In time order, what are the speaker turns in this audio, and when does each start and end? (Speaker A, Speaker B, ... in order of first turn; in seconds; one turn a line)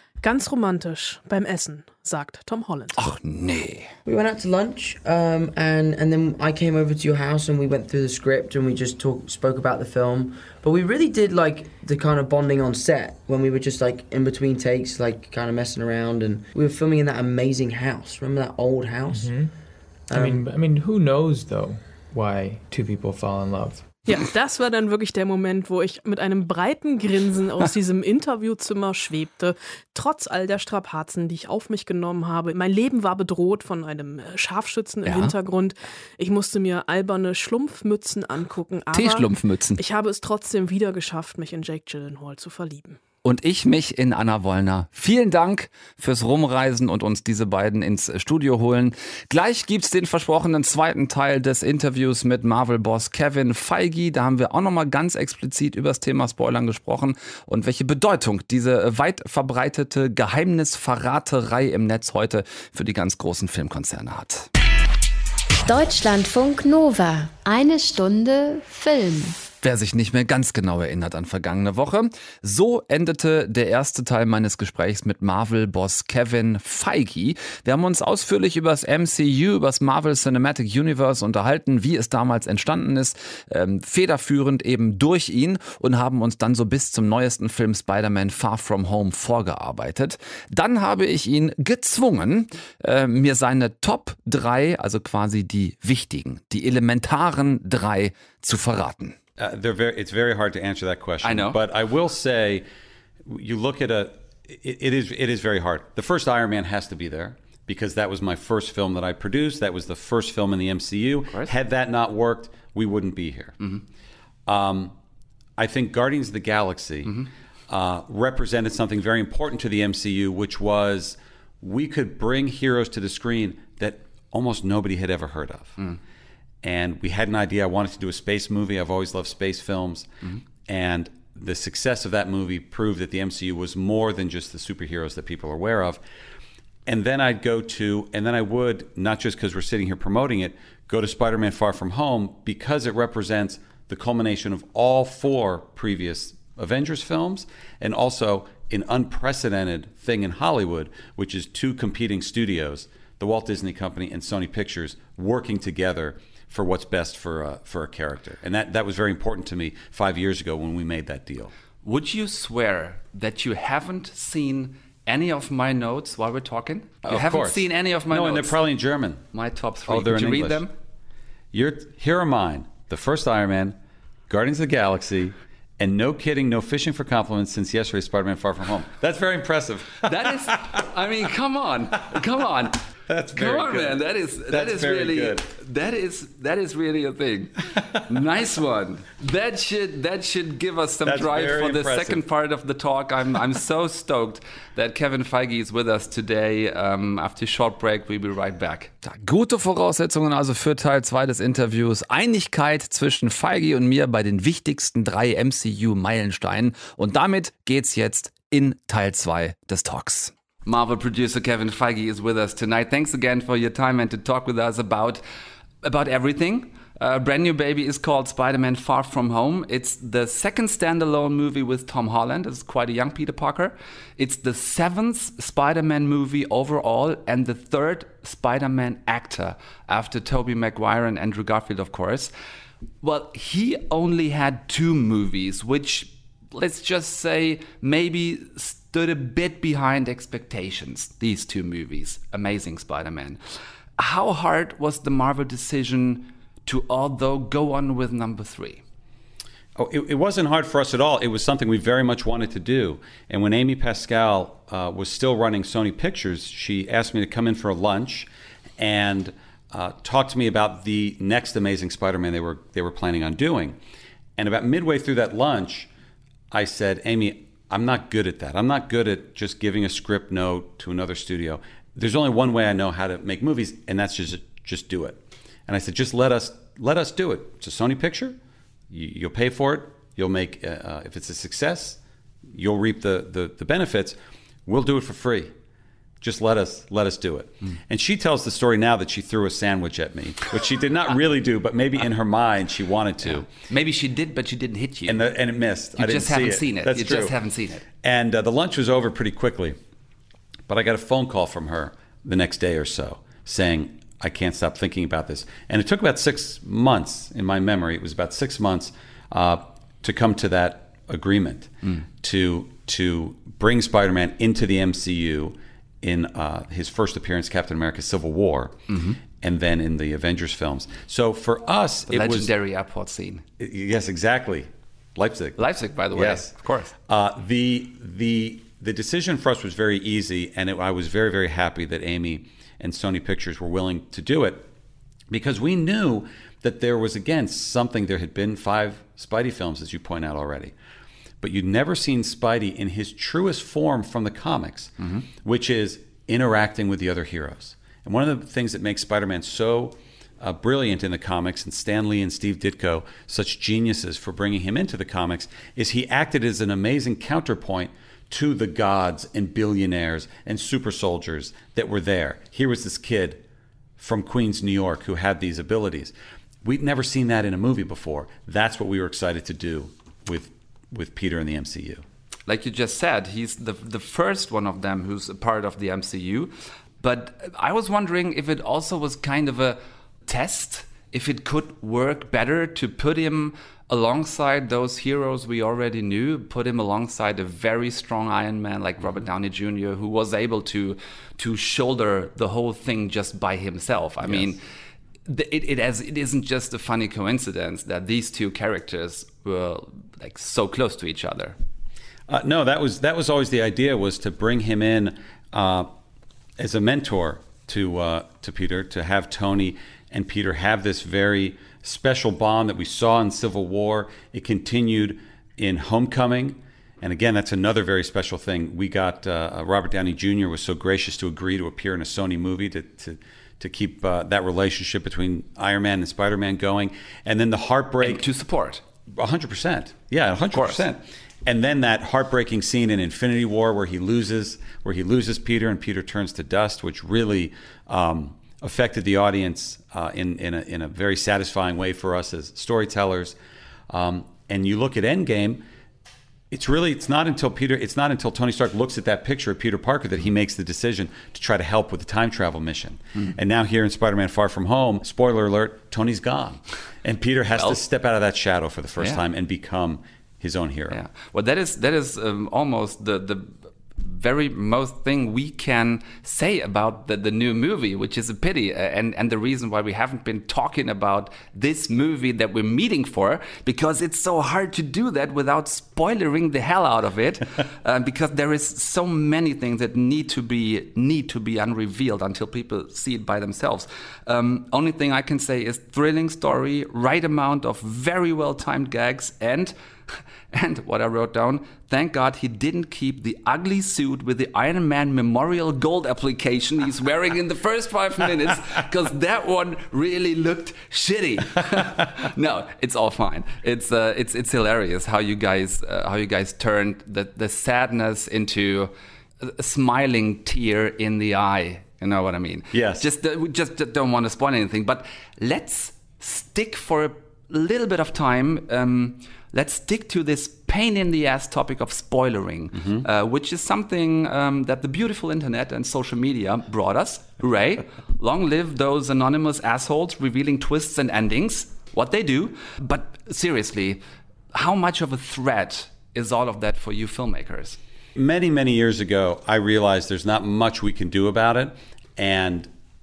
Speaker A: 0.2-3.0
Speaker B: 3.0-3.9
Speaker C: 4.0-19.3
Speaker D: 19.1-19.5
Speaker C: 20.1-20.4
Speaker D: 20.1-24.0
Speaker A: 24.1-43.0
Speaker B: 35.0-35.3
Speaker B: 38.9-39.8
Speaker B: 43.2-64.5
Speaker E: 65.7-69.4
Speaker B: 69.6-99.2
Speaker F: 99.4-102.6
Speaker B: 101.2-101.6
Speaker F: 103.2-113.5
Speaker F: 114.5-114.9
Speaker F: 115.6-117.1
Speaker F: 117.7-125.8
Speaker F: 126.6-130.1
Speaker F: 130.6-136.0
Speaker F: 136.8-161.5
Speaker B: 161.8-168.6
Speaker F: 167.0-169.2
Speaker B: 169.3-170.7
Speaker F: 169.9-170.6
Speaker F: 171.5-173.8
Speaker F: 174.3-180.6
Speaker B: 180.0-182.8
Speaker F: 183.1-185.4
Speaker B: 183.3-215.2
Speaker F: 191.0-192.2
Speaker B: 215.8-232.3
Speaker B: 233.0-243.4
Speaker B: 244.0-248.8
Speaker F: 249.8-258.3
Speaker F: 258.8-263.8
Speaker F: 264.4-265.9
Speaker F: 266.5-278.4
Speaker F: 278.9-282.0
Speaker F: 282.5-285.5
Speaker F: 286.2-293.5
Speaker B: 293.2-295.2
Speaker F: 295.1-297.3
Speaker B: 295.9-297.8
Speaker F: 298.0-299.8
Speaker F: 300.7-318.8
Speaker B: 318.9-319.2
Speaker F: 319.4-322.5
Speaker B: 322.1-323.4
Speaker F: 323.6-325.6
Speaker B: 325.6-326.9
Speaker F: 326.1-326.5
Speaker F: 327.1-334.7
Speaker F: 335.3-340.7
Speaker F: 341.4-363.4
Speaker F: 364.0-372.0
Speaker B: 372.5-394.6
Speaker B: 395.2-401.6
Speaker F: 402.3-405.9
Speaker F: 406.6-428.2
Speaker B: 428.0-428.8
Speaker F: 429.2-443.4
Speaker B: 430.5-430.9
Speaker F: 443.9-445.6
Speaker F: 446.5-461.0
Speaker B: 457.5-457.8
Speaker B: 460.9-489.7
Speaker B: 490.5-537.8
Speaker F: 512.7-513.1
Speaker F: 522.8-523.0
Speaker F: 538.1-542.7